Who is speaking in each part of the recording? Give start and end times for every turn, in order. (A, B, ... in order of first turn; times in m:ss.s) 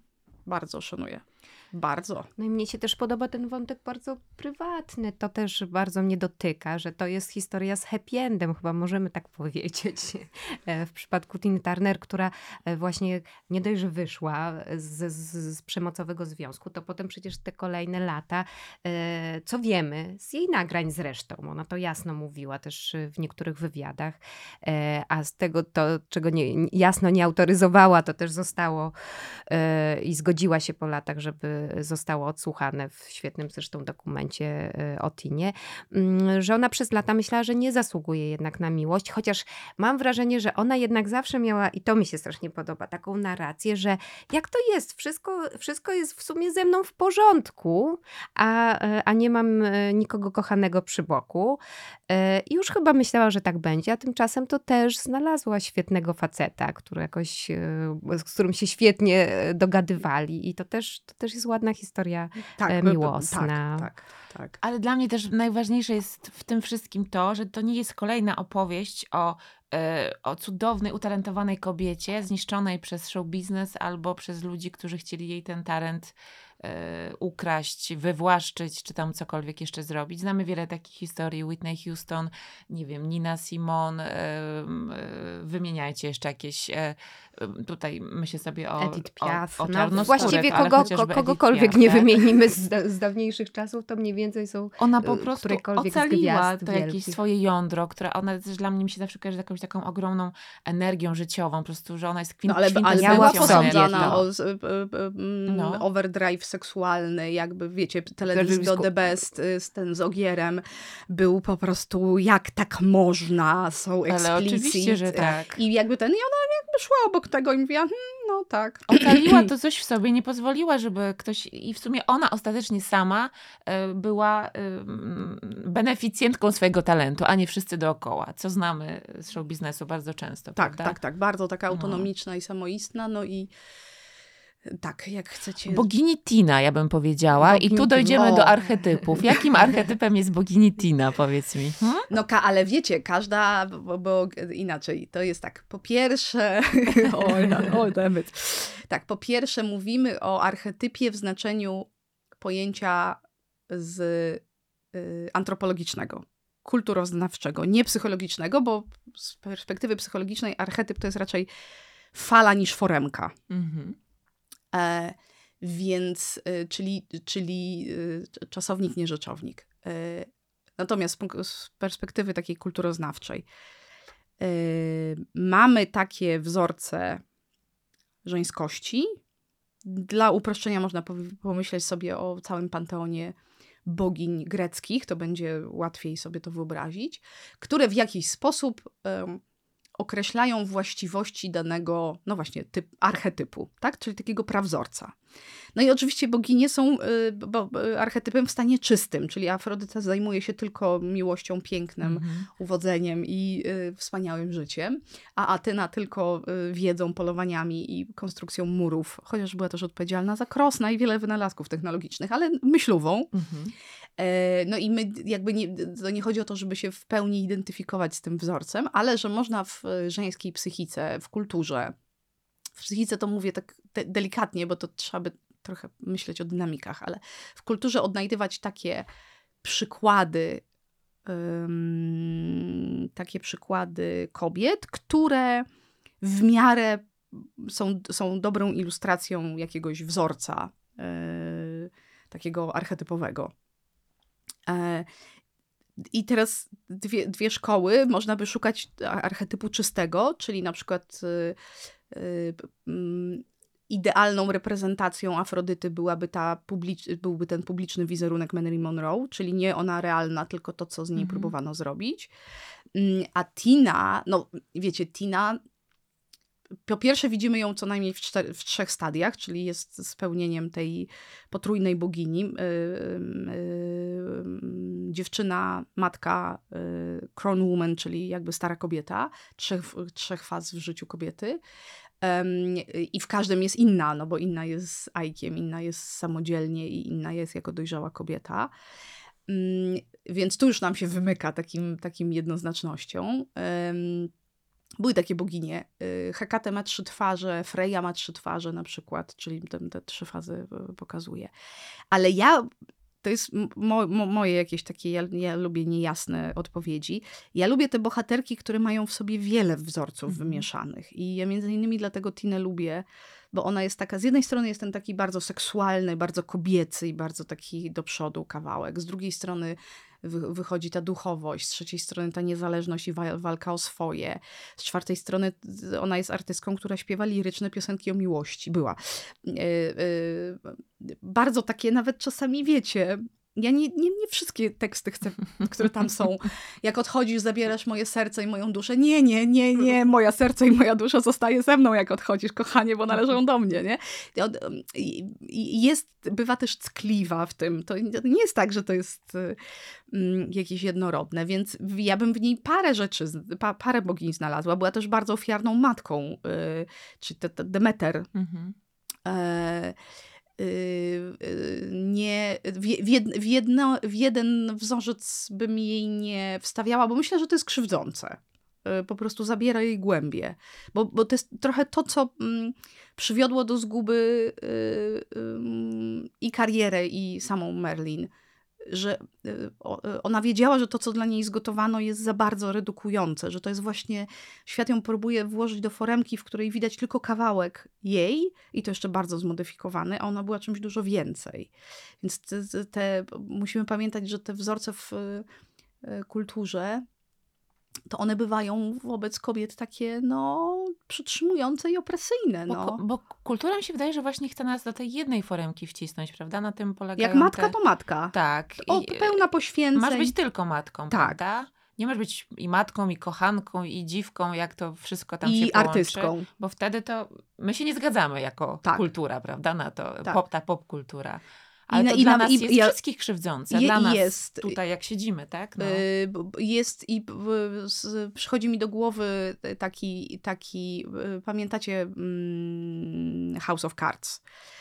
0:00.4-0:02.3 A
0:02.4-1:03.9 B
1:02.5-1:04.6 A
1:04.6-1:32.1 C
1:28.8-1:37.2 B
1:30.0-1:30.6 A
1:34.8-1:44.2 C
1:42.5-1:59.4 A
1:43.0-1:44.2 B
1:45.5-1:45.8 C
1:48.3-1:48.9 B
1:54.1-1:55.6 C
1:58.9-2:11.0 C
2:10.6-2:13.5 A
2:11.7-2:12.1 C
2:14.7-2:15.9 A
2:15.6-2:22.0 C
2:17.4-2:18.4 B
2:18.1-2:18.6 A
2:22.1-2:31.9 A
2:27.3-2:27.7 C
2:32.4-2:34.4 A
2:34.9-2:41.5 A
2:42.1-2:43.3 A
2:43.5-2:44.0 C
2:44.7-2:53.4 A
2:54.4-2:57.2 A
2:58.2-2:59.1 A
2:59.8-3:03.3 A
3:03.9-3:09.4 A
3:10.0-3:15.1 A
3:15.7-3:33.3 A
3:22.0-3:22.5 C
3:33.3-3:33.7 C
3:34.2-3:41.9 A
3:42.8-3:49.0 A
3:49.6-3:50.6 A
3:51.3-3:55.6 A
3:56.2-4:03.5 A
4:04.7-4:05.1 A
4:06.0-4:11.6 A
4:12.1-4:22.3 A
4:21.2-4:21.5 C
4:22.9-4:25.6 A
4:26.9-4:41.6 A
4:42.2-4:48.7 A
4:49.5-4:54.3 A
4:55.0-5:01.5 A
5:02.1-5:02.7 A
5:03.2-5:49.6 A
5:10.3-5:10.6 C
5:50.1-5:58.3 A
5:58.3-5:58.7 C
5:59.2-6:00.0 A
6:00.6-6:18.3 A
6:18.9-6:35.4 A
6:36.0-6:37.0 A
6:38.1-6:43.0 A
6:42.7-6:47.7 C
6:47.2-6:50.3 A
6:48.3-6:49.4 C
6:50.0-7:06.0 C
6:51.1-6:51.4 A
6:55.4-6:56.5 A
7:01.9-7:03.0 A
7:03.7-7:04.8 A
7:05.8-7:14.4 A